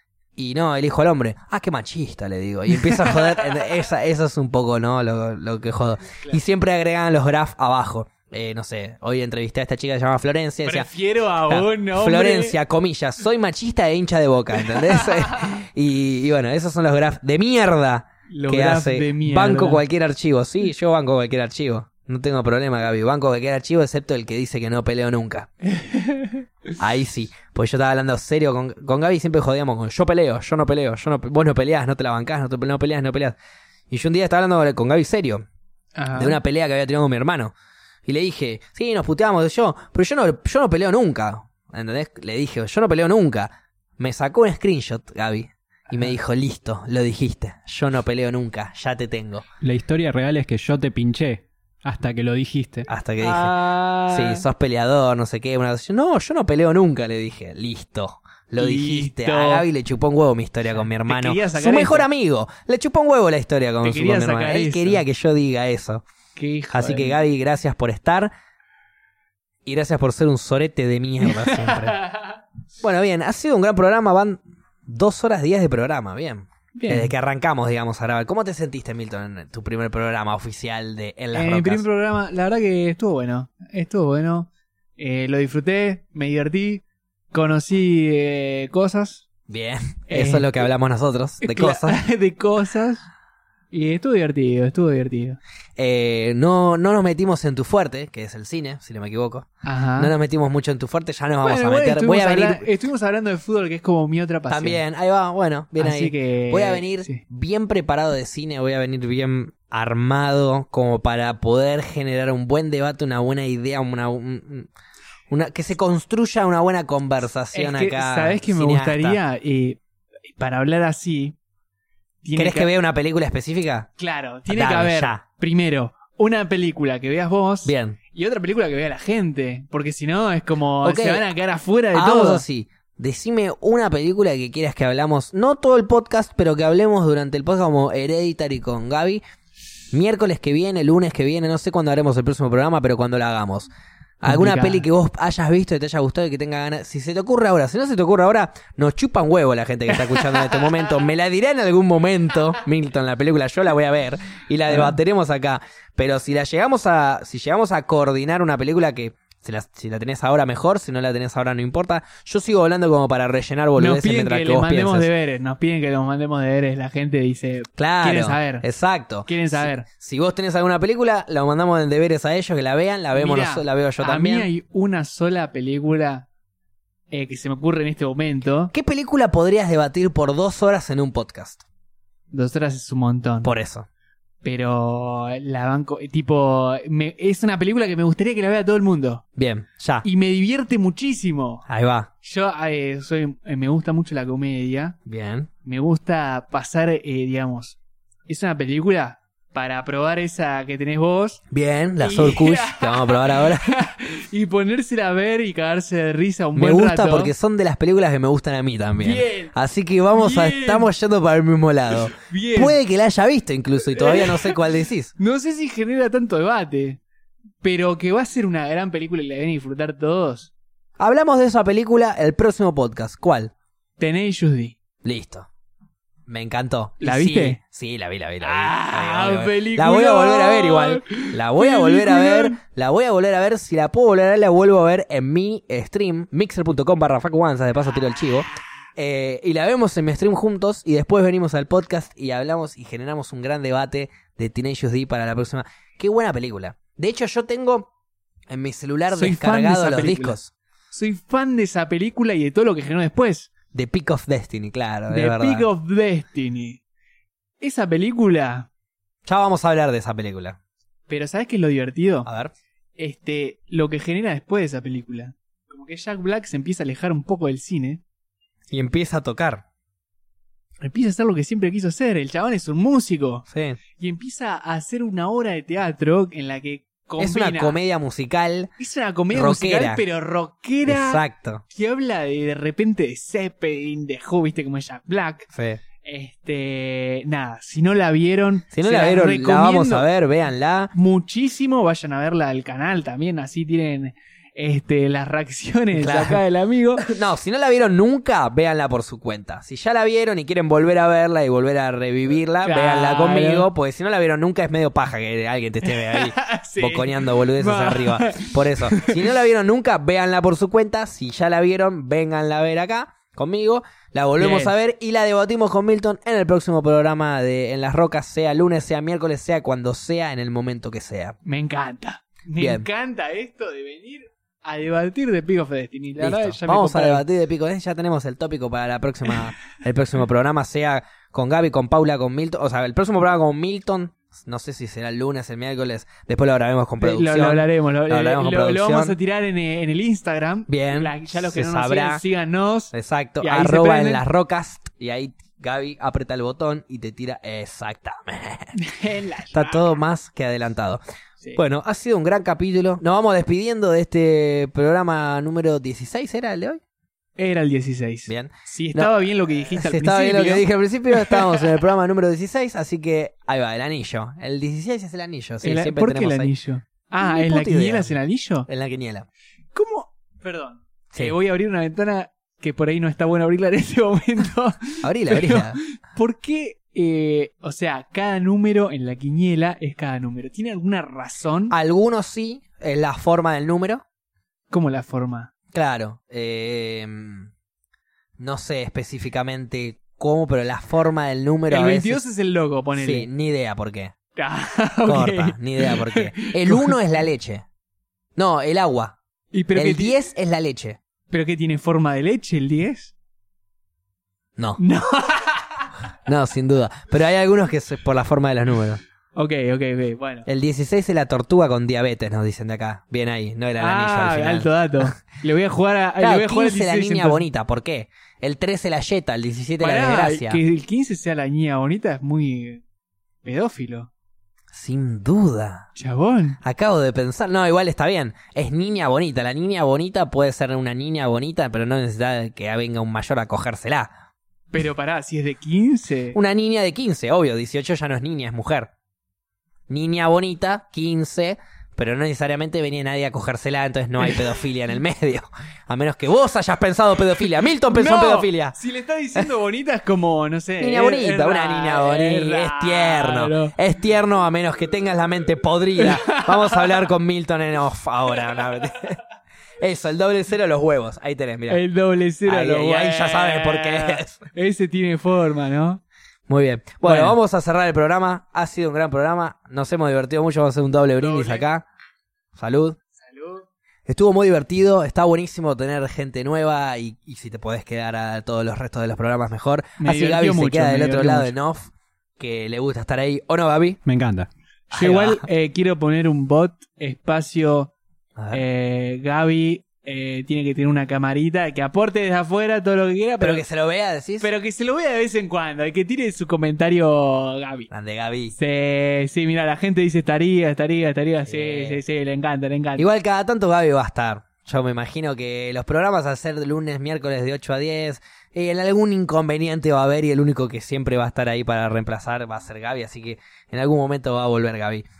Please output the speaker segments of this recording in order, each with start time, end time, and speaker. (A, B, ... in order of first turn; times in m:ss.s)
0:00.4-0:10.9 A
0:02.7-0:03.7 B
0:10.6-0:12.6 B
0:11.5-0:25.5 A
0:14.5-0:15.5 B
0:18.3-0:19.8 B
0:25.6-0:26.4 B
0:26.8-0:33.4 A
0:33.9-0:35.4 A
0:36.0-0:36.4 B
0:36.1-0:37.5 A
0:38.0-0:49.4 A
0:45.9-0:46.2 B
0:49.6-0:52.9 C
0:52.9-1:06.0 A
0:53.2-0:54.4 B
0:58.6-0:59.6 B
1:00.7-1:02.1 B
1:03.8-1:05.0 B
1:06.3-1:07.2 B
1:06.7-1:08.3 A
1:09.6-1:12.0 A
1:11.2-1:12.4 B
1:12.8-1:21.8 A
1:16.7-1:17.1 B
1:21.3-1:29.3 B
1:29.5-1:32.0 A
1:30.1-1:30.6 B
1:31.4-1:33.1 B
1:33.7-1:35.4 B
1:35.8-1:42.6 A
1:39.6-1:40.1 B
1:41.4-1:44.8 B
1:44.5-1:54.7 A
1:45.8-1:47.2 B
1:55.3-1:59.2 A
1:57.5-2:01.4 B
2:02.2-2:02.7 B
2:02.3-2:03.9 A
2:04.0-2:12.4 B
2:04.5-2:05.2 A
2:07.6-2:08.0 A
2:10.8-2:11.2 A
2:11.9-2:19.2 A
2:19.9-2:23.7 A
2:24.2-2:45.1 A
2:24.2-2:24.8 B
2:29.9-2:30.8 B
2:34.7-2:35.0 B
2:43.8-2:48.6 B
2:47.8-2:54.5 A
2:49.2-2:49.8 B
2:53.1-2:56.3 B
2:57.1-2:58.7 B
2:58.7-3:01.6 A
3:02.3-3:03.5 B
3:03.4-3:03.9 A
3:04.4-3:09.2 B
3:09.4-3:10.1 A
3:10.0-3:11.7 B
3:11.7-3:12.1 A
3:12.2-3:15.0 B
3:15.0-3:15.5 A
3:15.6-3:21.4 B
3:21.5-3:23.7 A
3:22.0-3:27.3 B
3:26.5-3:35.1 A
3:29.0-3:29.5 B
3:30.1-3:30.9 B
3:31.9-3:32.8 B
3:33.9-3:34.6 B
3:35.2-3:37.0 B
3:37.6-3:40.5 B
3:41.0-3:43.5 A
3:44.0-3:44.8 B
3:45.0-3:45.5 A
3:46.3-4:07.9 A
3:47.0-3:47.6 B
3:48.4-3:52.6 B
4:08.5-4:10.5 A
4:09.1-4:10.4 B
4:10.9-4:13.5 B
4:13.7-4:15.7 A
4:15.1-4:16.8 B
4:17.6-4:18.7 B
4:19.2-4:20.6 A
4:21.1-4:22.3 B
4:22.2-4:22.5 A
4:23.0-4:28.0 B
4:28.7-4:29.6 A
4:30.8-4:37.8 B
4:33.5-4:33.8 A
4:37.2-4:38.7 A
4:38.8-4:50.1 B
4:39.3-4:40.0 A
4:40.8-4:41.6 A
4:45.5-4:45.8 A
4:48.7-4:50.9 A
4:50.9-4:57.0 B
4:55.9-4:56.4 A
4:57.0-5:21.4 A
5:02.6-5:03.7 B
5:05.8-5:09.2 B
5:14.4-5:14.7 B
5:21.4-5:27.2 B
5:22.6-5:22.9 A
5:26.2-5:39.2 A
5:37.0-5:44.2 B
5:40.7-5:42.2 A
5:42.9-5:48.8 A
5:48.7-5:50.0 B
5:49.5-5:51.0 A
5:51.5-5:56.8 A
5:57.4-6:01.8 B
5:58.3-6:06.5 A
6:05.6-6:08.7 B
6:07.2-6:08.1 A
6:08.7-6:09.3 A
6:09.7-6:21.7 B
6:15.0-6:15.8 A
6:21.7-6:24.0 A
6:24.7-6:25.5 B
6:25.7-6:27.5 A
6:28.4-6:32.2 A
6:31.7-6:33.3 B
6:32.9-6:34.1 A
6:34.3-6:37.0 B
6:35.0-6:37.6 A
6:38.4-6:39.2 A
6:39.5-6:40.2 B
6:39.7-6:41.0 A
6:41.3-6:43.1 B
6:44.8-6:45.9 B
6:46.2-6:49.0 A
6:49.3-6:50.5 B
6:50.4-6:54.7 A
6:53.8-6:57.4 B
6:56.2-7:00.6 A
6:59.8-7:02.8 B
7:03.4-7:04.1 B
7:04.7-7:05.9 A
7:06.0-7:06.6 B
7:06.6-7:14.1 A
7:14.7-7:16.4 B
7:16.3-7:18.9 A
7:19.9-7:28.8 A
7:24.2-7:24.6 B
7:27.4-7:33.7 B
7:30.8-7:39.2 A
7:36.0-7:37.1 B
7:38.3-7:39.0 B
7:39.8-7:41.8 A
7:41.7-7:46.0 B
7:42.4-7:44.4 A
7:46.5-7:51.8 A
7:47.0-7:47.4 B
7:51.2-7:51.6 B
7:52.5-7:53.0 A
7:53.1-7:53.7 B
7:54.0-8:04.0 A
8:00.0-8:01.5 B
8:04.0-8:04.5 C
8:04.9-8:07.9 B
8:04.9-8:05.4 A
8:08.4-8:08.6 A
8:08.5-8:13.6 B
8:13.4-8:14.5 A
8:14.4-8:17.9 B
8:17.9-8:18.6 A
8:18.6-8:23.1 B
8:21.4-8:22.0 A
8:23.0-8:35.0 A